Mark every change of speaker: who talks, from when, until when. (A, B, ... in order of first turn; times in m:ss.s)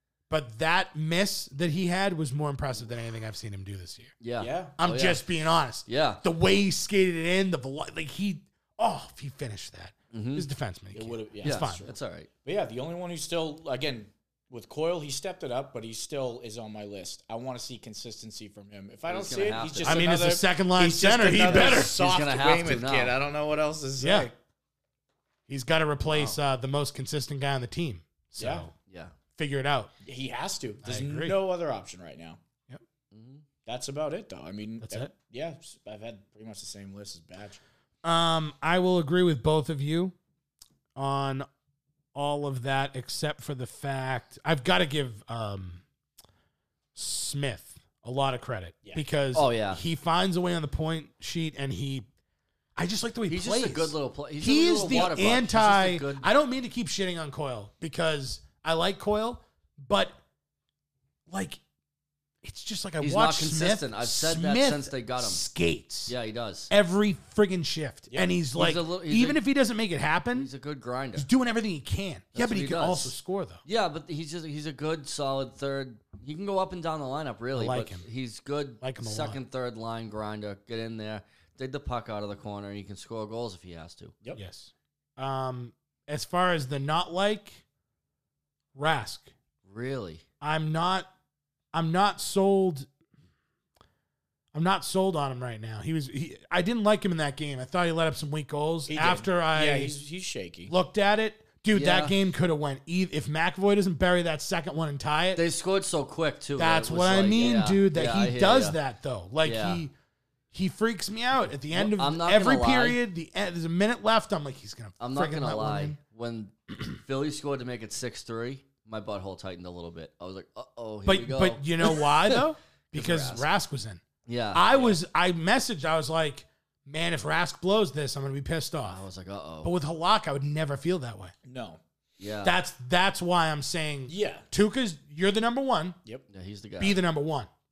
0:00.3-0:04.1 A
0:04.2-0:05.2 B
0:04.4-0:04.7 C
0:04.8-0:11.8 A
0:05.8-0:06.2 B
0:10.1-0:10.5 B
0:10.9-0:24.3 C
0:11.4-0:12.3 B
0:19.1-0:20.1 B
0:19.8-0:21.9 A
0:21.5-0:23.1 B
0:24.0-0:24.3 A
0:25.5-0:28.7 A
0:26.1-0:26.4 B
0:28.4-0:28.6 C
0:28.9-0:29.1 B
0:29.4-0:29.9 A
0:30.0-0:32.4 C
0:30.8-0:31.4 A
0:33.1-0:33.4 B
0:33.6-0:37.6 C
0:34.8-0:35.1 A
0:38.0-0:40.1 A
0:41.0-0:41.5 A
0:42.1-0:45.8 A
0:47.0-0:52.1 A
0:49.3-0:49.8 B
0:52.8-1:00.2 A
0:53.3-0:56.3 B
1:01.3-1:01.6 A
1:02.4-1:06.1 A
1:03.0-1:05.4 B
1:06.1-1:06.7 B
1:06.7-1:10.5 A
1:08.1-1:08.3 C
1:08.5-1:09.4 B
1:10.3-1:11.3 B
1:11.1-1:13.6 A
1:12.3-1:24.1 B
1:17.5-1:18.1 A
1:18.8-1:19.4 A
1:24.4-1:27.6 A
1:28.7-1:29.3 A
1:29.6-1:30.2 B
1:30.4-1:31.1 A
1:31.7-1:32.9 A
1:34.5-1:40.0 A
1:38.9-1:40.7 C
1:40.7-1:45.4 A
1:41.7-1:42.2 B
1:45.4-1:48.8 B
1:46.6-1:49.9 A
1:49.4-1:49.8 B
1:50.5-1:56.0 A
1:51.7-1:53.0 B
1:55.0-2:02.4 B
2:01.0-2:04.0 A
2:02.9-2:03.5 B
2:04.2-2:04.8 B
2:04.5-2:09.0 A
2:08.8-2:09.7 B
2:09.6-2:11.3 A
2:11.4-2:11.8 C
2:12.2-2:12.6 B
2:12.4-2:16.0 A
2:14.1-2:14.5 C
2:16.3-2:17.0 B
2:16.8-2:17.5 A